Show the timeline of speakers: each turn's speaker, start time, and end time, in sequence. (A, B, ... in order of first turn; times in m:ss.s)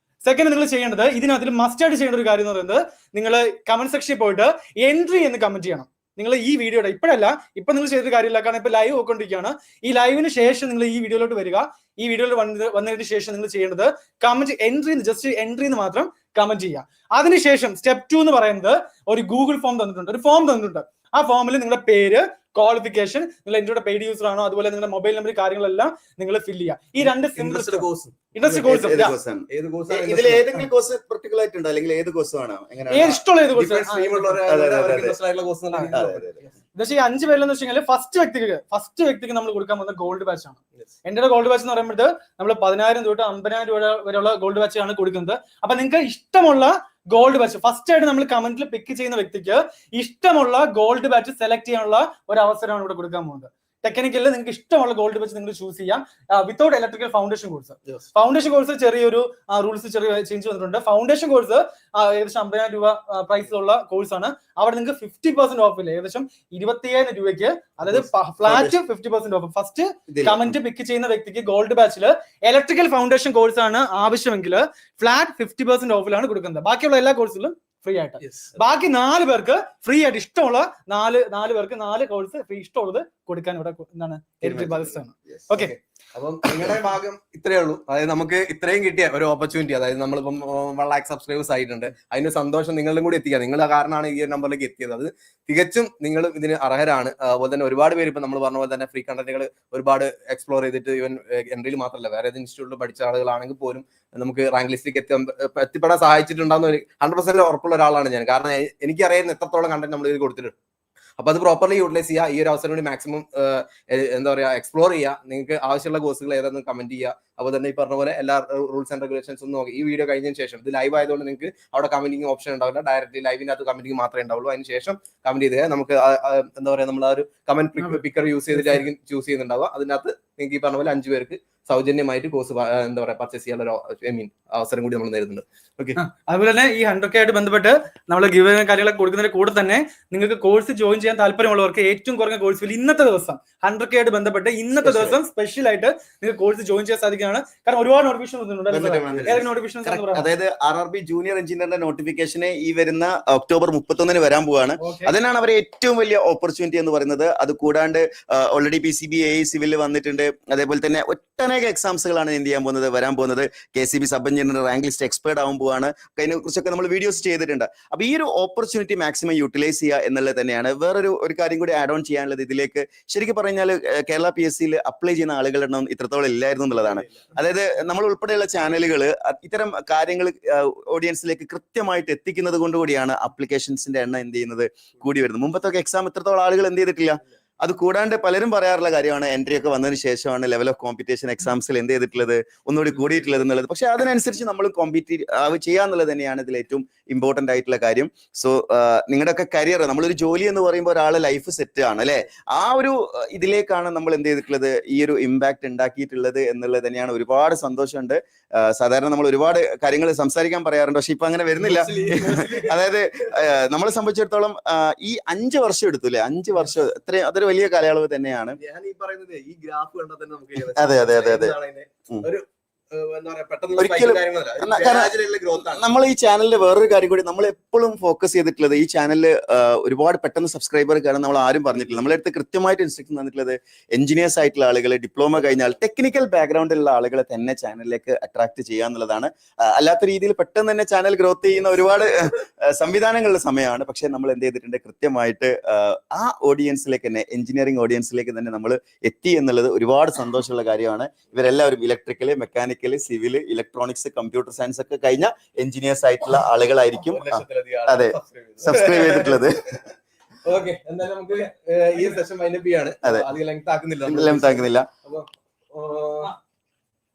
0:00.2-0:29.2 A
0:27.0-0:30.6 B
0:28.6-0:33.2 C
0:32.9-0:34.4 A
0:33.6-0:36.5 B
0:34.5-0:35.2 C
0:35.9-0:36.4 C
0:36.8-1:25.7 A
1:07.9-1:08.8 C
1:10.1-1:10.5 C
1:18.2-1:18.5 B
1:24.4-1:25.5 C
1:25.5-1:50.6 B
1:51.2-2:16.0 B
2:16.0-2:30.3 A
2:24.8-2:25.2 C
2:28.7-3:38.6 C
2:34.8-2:35.2 A
2:56.8-2:57.2 B
3:31.6-3:32.8 B
3:38.6-3:45.8 B
3:40.8-3:41.6 C
3:43.8-4:19.6 C
4:17.0-4:19.8 B
4:20.4-4:26.3 B
4:23.0-4:23.3 C
4:24.0-4:24.9 C